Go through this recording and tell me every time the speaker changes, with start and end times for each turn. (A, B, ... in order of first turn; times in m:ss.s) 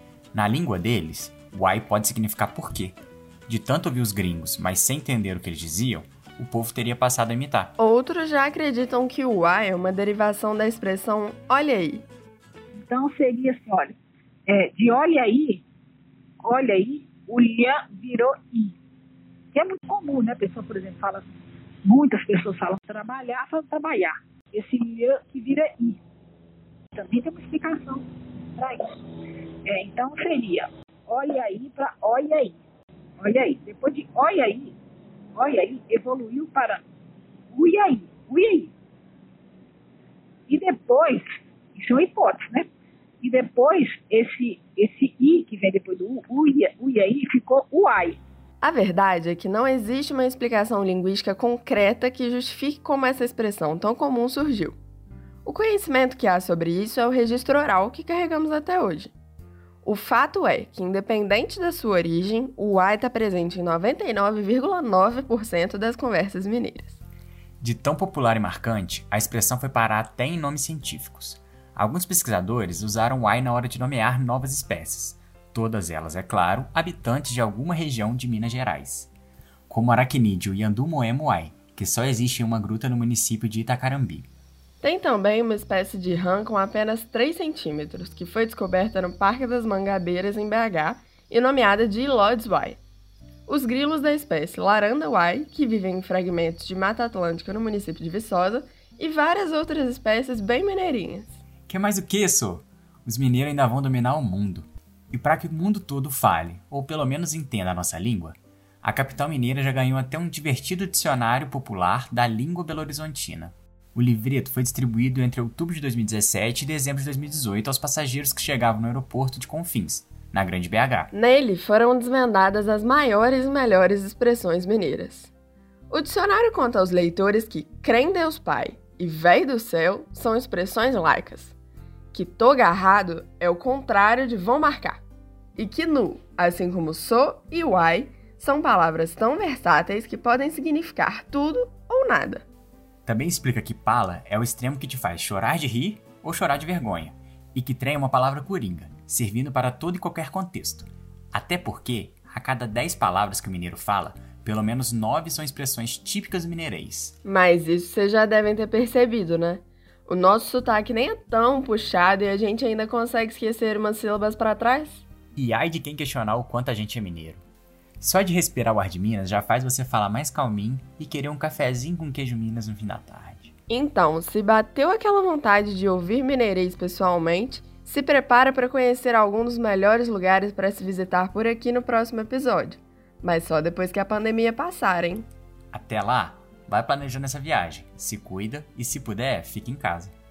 0:00.3-0:07.8 A
0:07.8-0:12.0 B
0:12.8-0:14.0 C
0:14.5-0:15.6 C
0:16.4-0:18.7 C
0:19.5-0:21.3 C
0:21.8-0:26.0 C
0:26.9-0:28.0 C
0:28.6-0:29.0 C
0:29.6-0:32.6 C
0:33.2-0:34.7 C
0:35.3-0:36.8 C
0:37.5-0:38.7 C
0:40.5-0:42.7 C
0:43.2-0:48.2 C
0:48.6-0:54.8 B
0:55.4-0:59.1 B
0:59.8-1:07.0 B
1:07.6-1:19.1 A
1:19.7-1:24.3 A
1:24.8-1:32.8 B
1:33.5-1:41.4 B
1:41.7-2:01.1 A
2:01.1-2:05.3 B
2:05.9-2:11.5 B
2:12.1-2:15.0 B
2:15.6-2:22.4 B
2:23.0-2:37.2 A
2:37.2-2:45.0 B
2:45.4-2:47.4 A
2:48.0-2:53.5 A
2:53.7-3:05.3 B
3:05.7-3:10.1 A